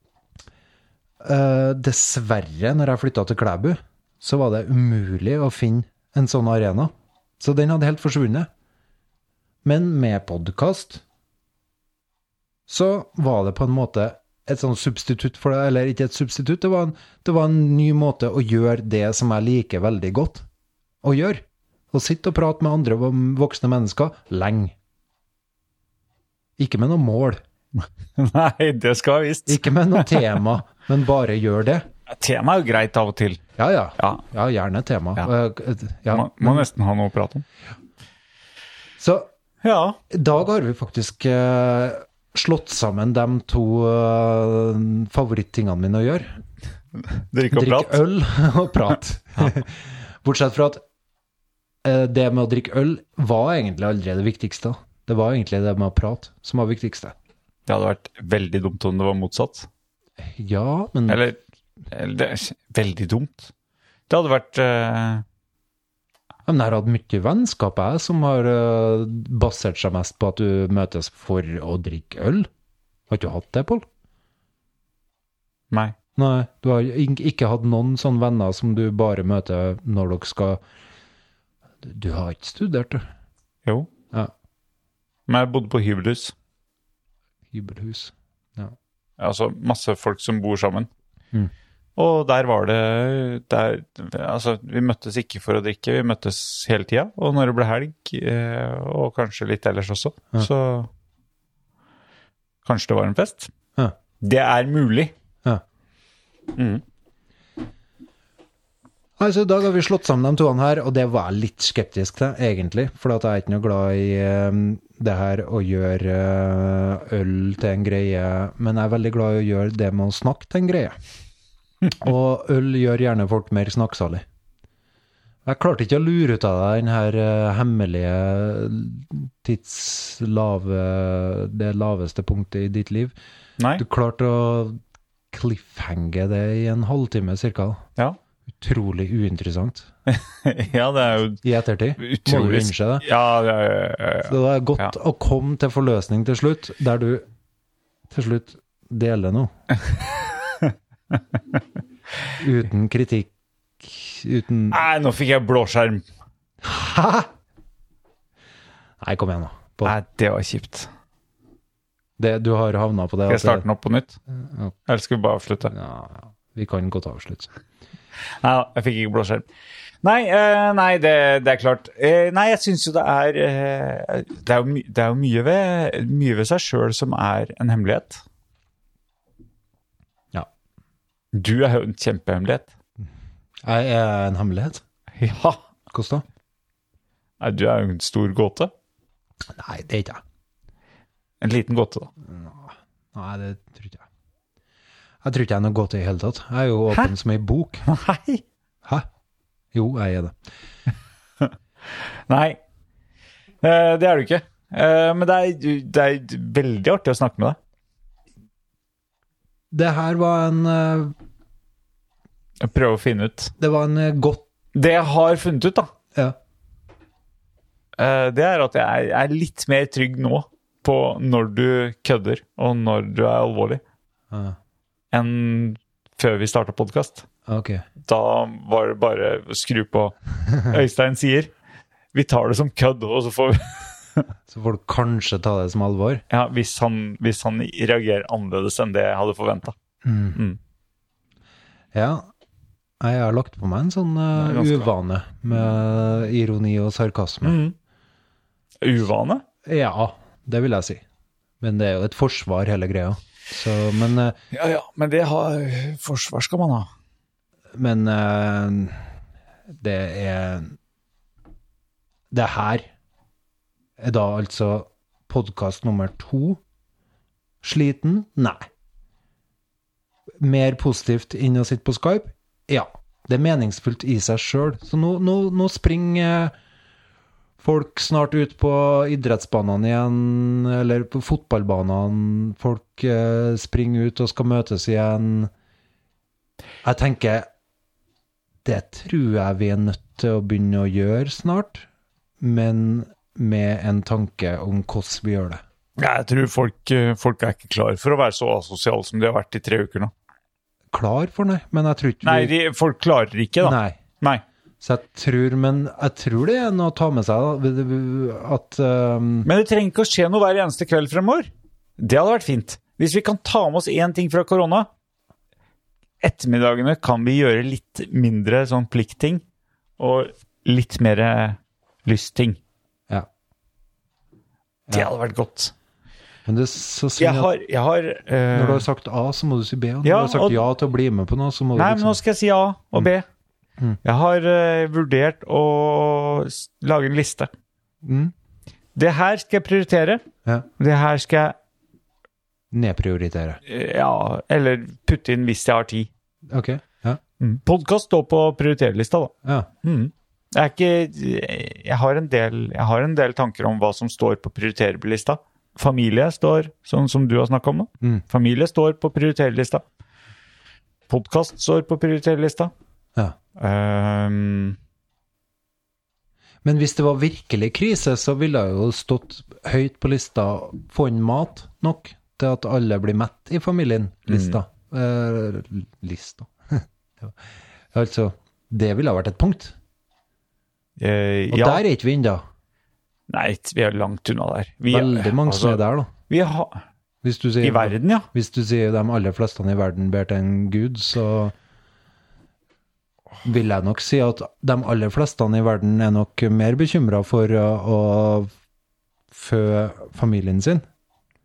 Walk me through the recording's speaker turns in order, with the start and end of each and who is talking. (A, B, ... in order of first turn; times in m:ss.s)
0:01.2-0:08.5 A
0:09.6-0:11.0 A
0:12.7-0:20.4 A
0:21.0-0:24.7 A
0:26.6-0:27.4 A
0:27.8-0:30.2 B
0:29.5-0:31.8 A
0:32.1-0:33.4 B
0:33.6-0:36.7 A
0:34.0-0:34.2 B
0:36.1-0:37.4 B
0:39.0-0:39.3 A
0:39.6-0:40.0 B
0:40.1-0:46.4 A
0:47.0-0:48.0 B
0:47.5-0:50.8 A
0:51.8-0:57.1 A
0:57.7-0:59.7 B
1:00.2-1:01.2 A
1:01.1-1:01.4 B
1:01.9-1:03.5 B
1:04.1-1:05.2 B
1:06.4-1:12.5 A
1:13.1-1:13.8 A
1:16.2-1:20.6 A
1:21.8-1:23.0 A
1:23.6-1:23.9 B
1:25.3-1:26.3 B
1:27.5-1:28.8 A
1:29.2-1:30.9 B
1:32.0-1:40.9 B
1:42.6-1:43.5 B
1:44.2-1:45.1 B
1:46.6-1:46.8 B
1:49.2-2:01.0 A
2:01.9-2:04.2 A
2:05.4-2:13.1 A
2:13.8-2:14.8 A
2:15.3-2:17.8 A
2:18.5-2:19.9 A
2:20.1-2:21.4 B
2:21.4-2:23.0 A
2:22.0-2:24.9 B
2:24.2-2:27.2 A
2:28.1-2:29.5 A
2:30.5-2:31.2 B
2:32.4-2:33.3 A
2:33.8-2:34.8 A
2:34.7-2:36.0 B
2:36.6-2:37.3 A
2:39.0-2:40.0 A
2:39.8-2:40.9 B
2:42.2-2:43.6 A
2:43.3-2:44.2 B
2:44.3-2:44.8 A
2:44.9-2:45.7 B
2:45.7-2:47.5 A
2:48.4-2:49.5 B
2:50.0-2:58.2 B
3:01.3-3:02.7 B
3:03.6-3:04.8 A
3:05.2-3:05.6 B
3:05.9-3:06.2 A
3:07.4-3:08.7 B
3:09.5-3:10.2 A
3:11.4-3:12.1 B
3:12.2-3:14.0 A
3:15.2-3:17.8 A
3:17.8-3:18.4 B
3:19.7-3:20.4 A
3:22.3-3:22.6 B
3:23.6-3:27.6 B
3:29.7-3:31.1 A
3:32.6-3:33.5 B
3:33.6-3:34.4 A
3:34.7-3:35.9 B
3:38.0-3:43.8 B
3:44.3-3:44.6 A
3:45.1-3:47.2 B
3:47.4-3:47.8 A
3:48.0-3:51.5 B
3:52.1-3:54.3 B
3:54.5-3:56.2 A
3:56.3-3:59.8 B
4:00.0-4:00.4 A
4:01.9-4:02.2 A
4:03.0-4:07.6 A
4:04.4-4:04.9 B
4:07.4-4:07.7 B
4:08.8-4:09.4 B
4:09.6-4:11.0 A
4:11.6-4:14.4 A
4:14.5-4:16.9 B
4:17.8-4:19.0 A
4:19.7-4:20.8 A
4:22.3-4:22.9 A
4:24.0-4:26.6 A
4:27.6-4:28.6 A
4:30.4-4:36.5 A
4:37.6-4:45.5 A
4:46.8-4:47.5 A
4:48.6-4:51.9 A
4:52.4-4:55.6 A
4:56.0-5:00.1 B
5:00.9-5:02.5 A
5:02.2-5:04.4 B
5:03.6-5:04.0 A
5:04.8-5:09.5 A
5:09.4-5:14.9 B
5:16.2-5:19.4 B
5:20.0-5:22.6 B
5:24.9-5:25.7 B
5:26.4-5:27.5 A
5:27.2-5:28.8 B
5:28.5-5:32.2 A
5:30.0-5:30.6 B
5:31.7-5:33.2 B
5:34.0-5:37.5 B
5:38.0-5:38.3 A
5:38.9-5:40.2 B
5:40.8-5:41.5 B
5:42.7-5:43.6 A
5:43.6-5:46.1 B
5:46.5-5:47.2 A
5:47.4-5:49.3 B
5:49.8-5:59.8 B
6:01.1-6:02.7 B
6:03.6-6:04.8 B
6:06.6-6:17.4 A
6:14.3-6:14.6 B
6:17.9-6:19.7 A
6:21.0-6:21.8 B
6:21.5-6:22.4 A
6:23.3-6:26.8 B
6:24.9-6:26.1 A
6:27.2-6:31.5 A
6:27.6-6:28.3 B
6:33.4-6:38.5 A
6:39.3-6:40.8 A